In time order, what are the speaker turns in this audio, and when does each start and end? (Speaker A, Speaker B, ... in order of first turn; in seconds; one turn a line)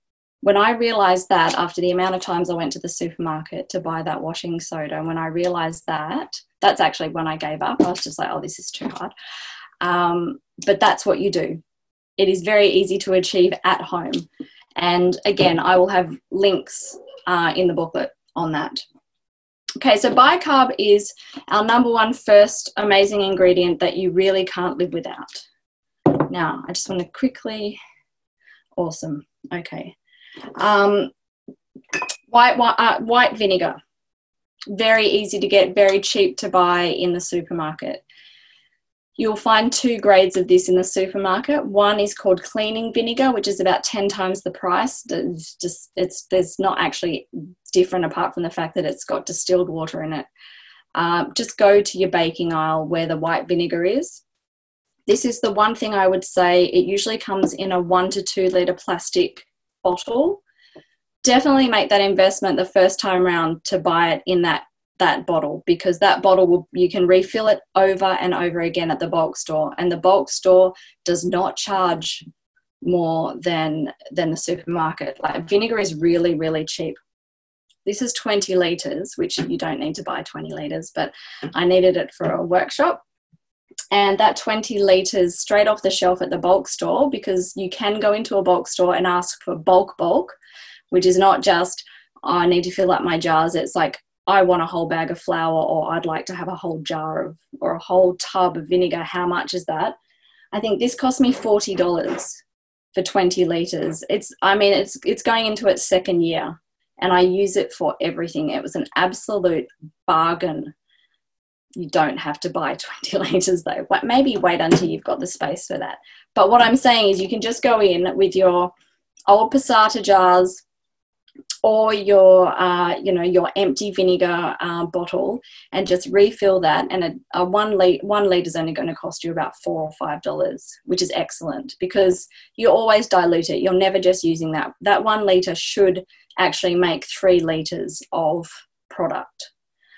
Speaker A: 0.4-9.1
Speaker A: 9.8-11.6
Speaker A: 12.2-14.2
Speaker A: 14.8-18.8
Speaker A: 19.8-25.4
Speaker A: 26.1-27.8
Speaker A: 28.8-29.9
Speaker A: 30.6-31.1
Speaker A: 32.3-33.8
Speaker A: 34.7-38.0
Speaker A: 39.2-50.3
Speaker A: 51.0-54.2
Speaker A: 55.1-60.4
Speaker A: 61.2-72.2
Speaker A: 72.8-77.0
Speaker A: 77.8-83.0
Speaker A: 83.9-90.3
Speaker A: 90.9-99.9
Speaker A: 100.5-102.4
Speaker A: 103.0-110.7
Speaker A: 111.8-118.7
Speaker A: 119.3-120.6
Speaker A: 121.6-139.5